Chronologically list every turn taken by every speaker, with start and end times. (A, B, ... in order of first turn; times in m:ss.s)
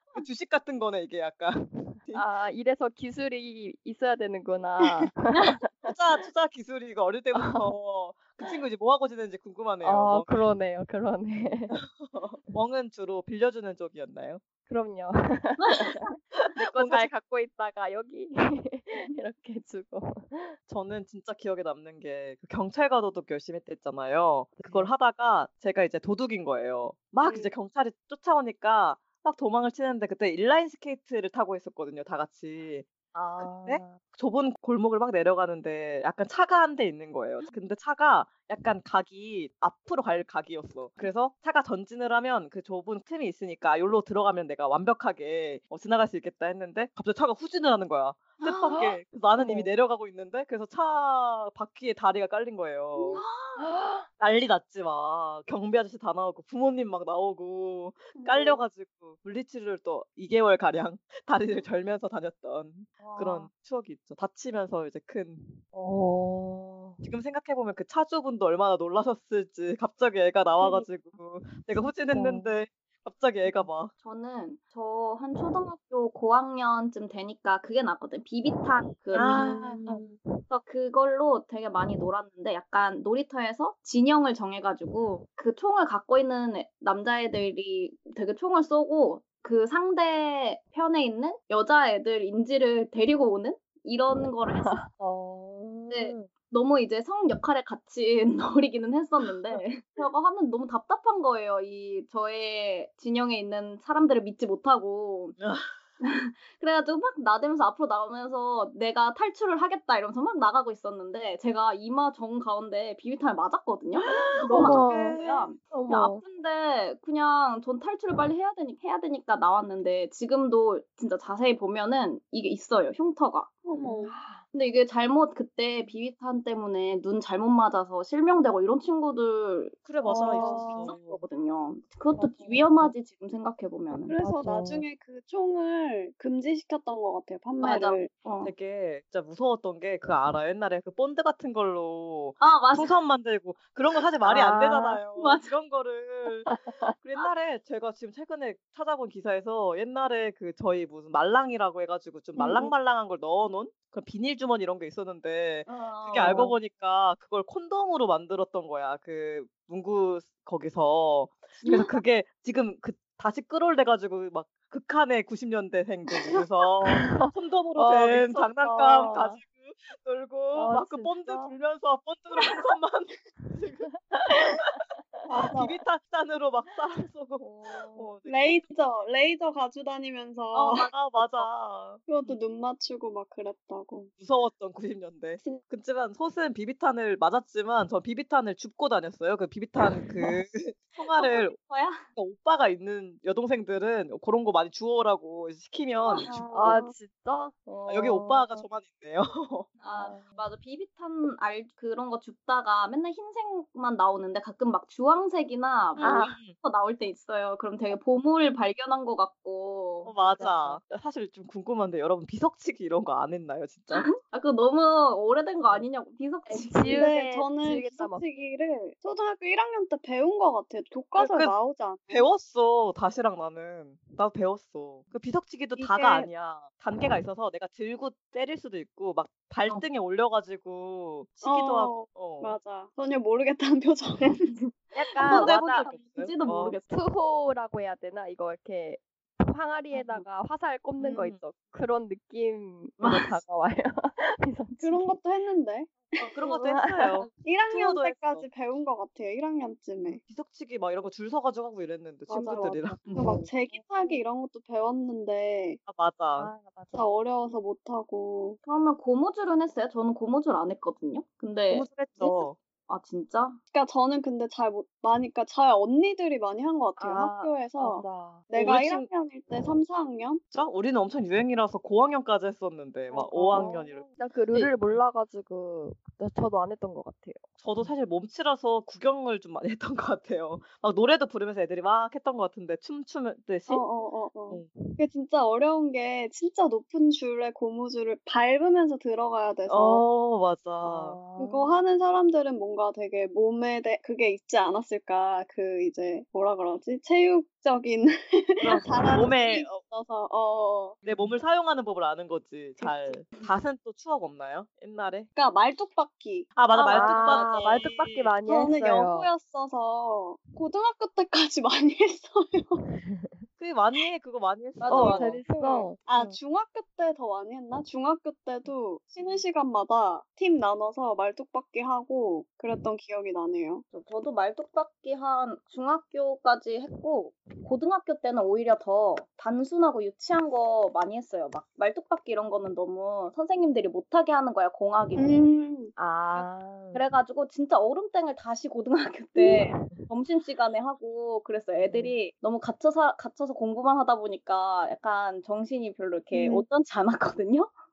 0:00.1-0:02.2 A
0:02.1-0:05.9 B
0:05.3-0:05.6 C
0:05.8-0:10.4 A
0:07.4-0:07.7 B
0:09.8-0:11.8 B
0:11.7-0:14.4 A
0:14.7-0:20.6 B
0:15.6-0:16.1 C
0:16.4-0:17.1 A
0:20.7-0:32.9 A
0:24.6-0:24.9 B
0:27.2-0:27.5 D
0:33.1-0:34.0 B
0:33.4-0:53.2 A
0:48.4-0:48.9 C
0:49.4-0:49.7 B
0:53.0-0:53.6 C
0:53.6-0:54.1 B
0:54.2-1:05.6 A
0:58.2-0:58.6 C
1:03.0-1:03.5 B
1:05.7-1:07.1 B
1:07.0-1:13.9 A
1:11.7-1:12.6 B
1:13.4-1:13.7 B
1:14.0-1:34.8 C
1:18.5-1:20.4 B
1:19.1-1:19.8 A
1:34.5-1:36.3 B
1:35.9-1:45.4 C
1:45.4-1:45.7 A
1:46.0-2:03.5 C
1:54.1-1:55.5 A
1:54.5-1:55.2 B
1:55.7-1:56.2 B
2:03.7-2:04.1 D
2:04.0-2:04.4 B
2:04.5-2:14.2 C
2:09.9-2:11.2 A
2:10.1-2:10.9 B
2:10.3-2:10.7 D
2:12.2-2:12.9 B
2:14.1-2:18.1 D
2:14.2-2:14.8 B
2:17.6-2:18.5 C
2:18.4-2:54.8 A
2:22.4-2:23.0 C
2:24.3-2:25.0 B
2:25.1-2:25.5 C
2:26.5-2:26.9 B
2:35.7-2:36.5 C
2:36.2-2:36.5 B
2:41.6-2:41.9 C
2:46.9-2:49.4 B
2:50.5-2:51.5 B
2:53.4-2:55.5 B
2:55.3-2:55.8 D
2:55.5-2:58.7 A
2:57.4-2:58.1 B
2:58.3-3:00.9 D
3:00.5-3:01.5 C
3:00.9-3:02.0 A
3:02.1-3:04.1 D
3:04.2-3:11.5 A
3:11.0-3:12.0 C
3:12.2-3:16.3 A
3:16.0-3:16.3 C
3:16.2-3:16.9 D
3:16.5-3:18.7 B
3:17.9-3:19.7 A
3:19.8-3:30.1 C
3:19.9-3:20.5 B
3:26.0-3:26.4 B
3:26.0-3:26.6 A
3:30.0-3:34.1 A
3:30.2-3:30.8 B
3:33.9-3:37.1 C
3:36.5-3:38.2 B
3:36.9-3:42.3 D
3:41.2-3:41.5 A
3:42.1-3:52.6 A
3:45.8-3:46.3 D
3:51.4-3:54.6 D
3:54.4-3:56.9 C
3:55.0-3:56.8 A
3:55.2-3:55.9 B
3:56.9-4:05.2 B
3:59.9-4:00.2 C
4:01.0-4:01.4 A
4:03.0-4:03.4 C
4:04.8-4:06.6 D
4:06.2-4:08.5 A
4:06.5-4:07.3 B
4:07.4-4:10.2 D
4:10.2-4:13.0 A
4:12.3-4:15.8 D
4:12.3-4:14.2 B
4:13.1-4:13.4 C
4:15.9-4:16.5 A
4:16.4-4:17.1 B
4:16.9-4:18.6 D
4:18.6-4:23.6 C
4:21.7-4:22.6 A
4:23.7-4:30.4 D
4:27.0-4:28.4 B
4:28.5-4:29.7 A
4:30.5-4:35.0 A
4:33.1-4:33.8 D
4:33.3-4:37.8 B
4:37.6-4:43.8 A
4:43.7-4:50.0 D
4:44.5-4:45.0 A
4:49.7-4:51.2 A
4:50.8-4:51.8 B
4:51.4-5:01.0 D
4:58.6-4:59.8 A
5:01.0-5:05.3 A
5:01.1-5:01.4 B
5:05.4-5:06.5 D
5:06.6-5:08.3 A
5:06.7-5:07.6 C
5:06.9-5:09.3 B
5:08.4-5:12.8 D
5:13.0-5:13.4 B
5:13.6-5:15.4 A
5:14.8-5:15.9 C
5:14.9-5:16.4 B
5:14.9-5:15.2 D
5:16.0-5:23.8 D
5:23.9-5:35.5 C
5:35.2-5:35.9 D
5:36.0-5:37.0 B
5:36.4-5:47.7 C
5:39.4-5:39.6 D
5:39.6-5:40.1 B
5:41.8-5:42.2 B
5:46.3-5:46.7 D